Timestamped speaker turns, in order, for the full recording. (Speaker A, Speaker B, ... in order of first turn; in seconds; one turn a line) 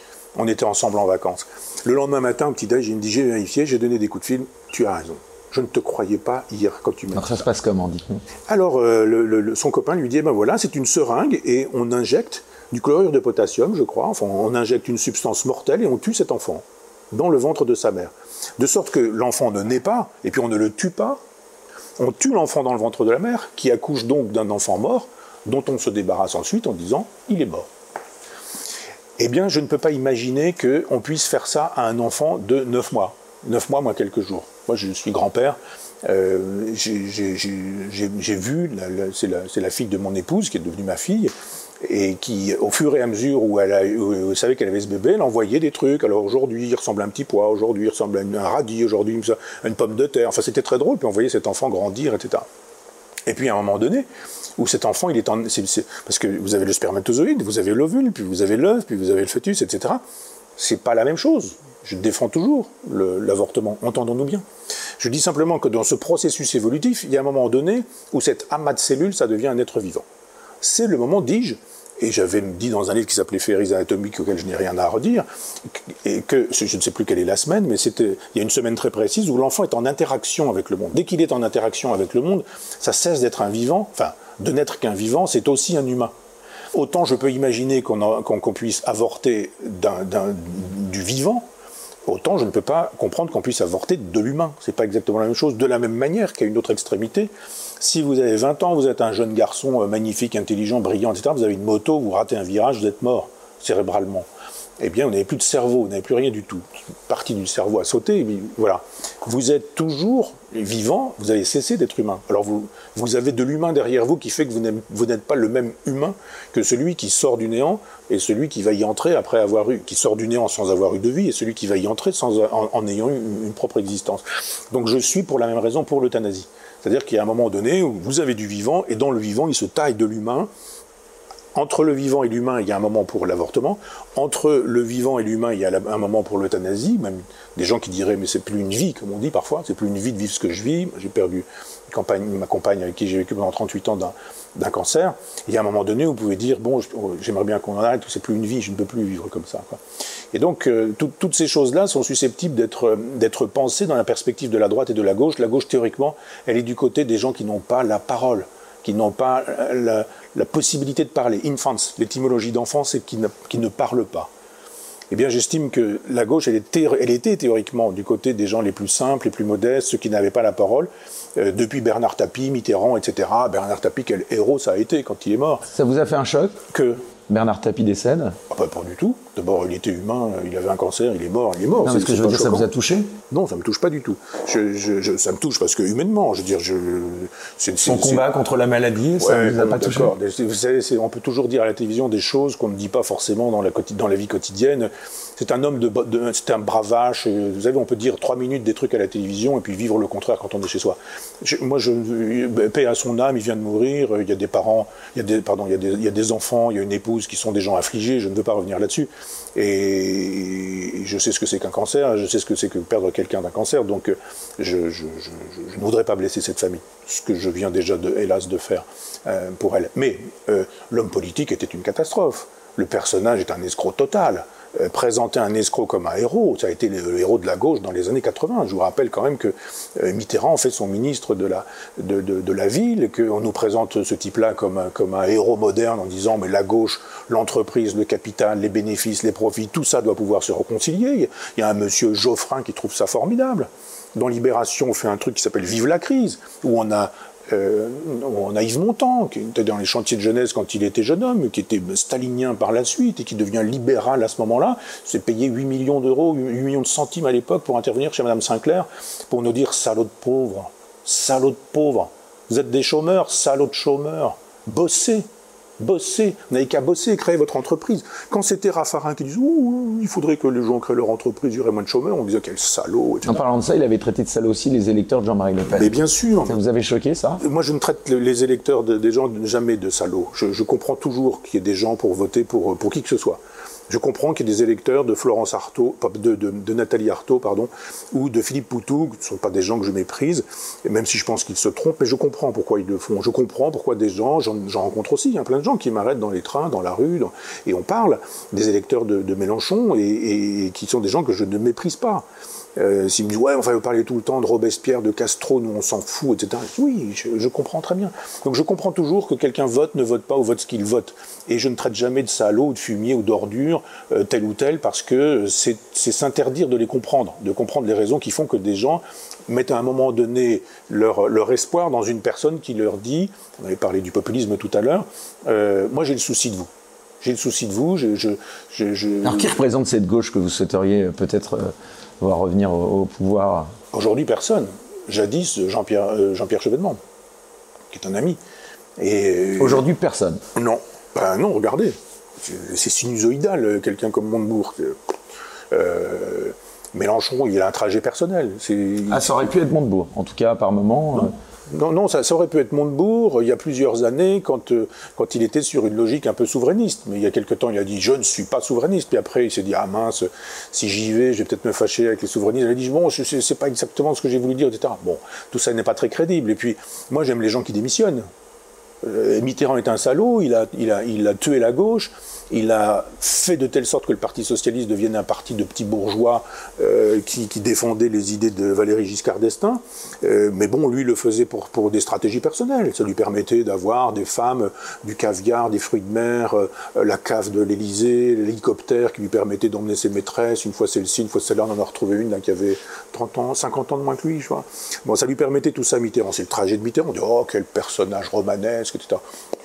Speaker A: 0.3-7.5
Speaker B: 7.1-8.2
Speaker A: 8.5-21.2
Speaker A: 22.0-27.7
Speaker A: 29.2-52.4
Speaker A: 53.3-60.0
Speaker A: 60.6-64.4
Speaker A: 65.0-70.0
Speaker A: 70.6-86.1
Speaker A: 86.7-91.4
Speaker A: 92.0-104.3
Speaker A: 104.8-130.5
Speaker A: 131.5-149.8
Speaker A: 150.3-164.3
Speaker A: 165.1-175.7
Speaker B: 175.7-176.6
Speaker A: 176.7-177.0
Speaker B: 177.3-178.4
Speaker A: 178.5-182.7
Speaker B: 181.8-183.1
Speaker A: 183.3-188.2
Speaker B: 187.8-190.1
Speaker A: 189.2-265.2
Speaker A: 265.8-273.4
Speaker B: 273.2-275.9
Speaker A: 275.7-276.6
Speaker B: 276.4-277.4
Speaker A: 277.4-326.7
Speaker A: 327.2-329.5
Speaker B: 329.2-333.7
Speaker A: 333.9-337.0
Speaker A: 337.9-338.4
Speaker A: 339.0-339.8
Speaker B: 339.6-340.4
Speaker A: 340.5-345.0
Speaker A: 345.7-349.5
Speaker B: 349.1-351.3
Speaker A: 351.7-368.2
Speaker A: 369.0-399.2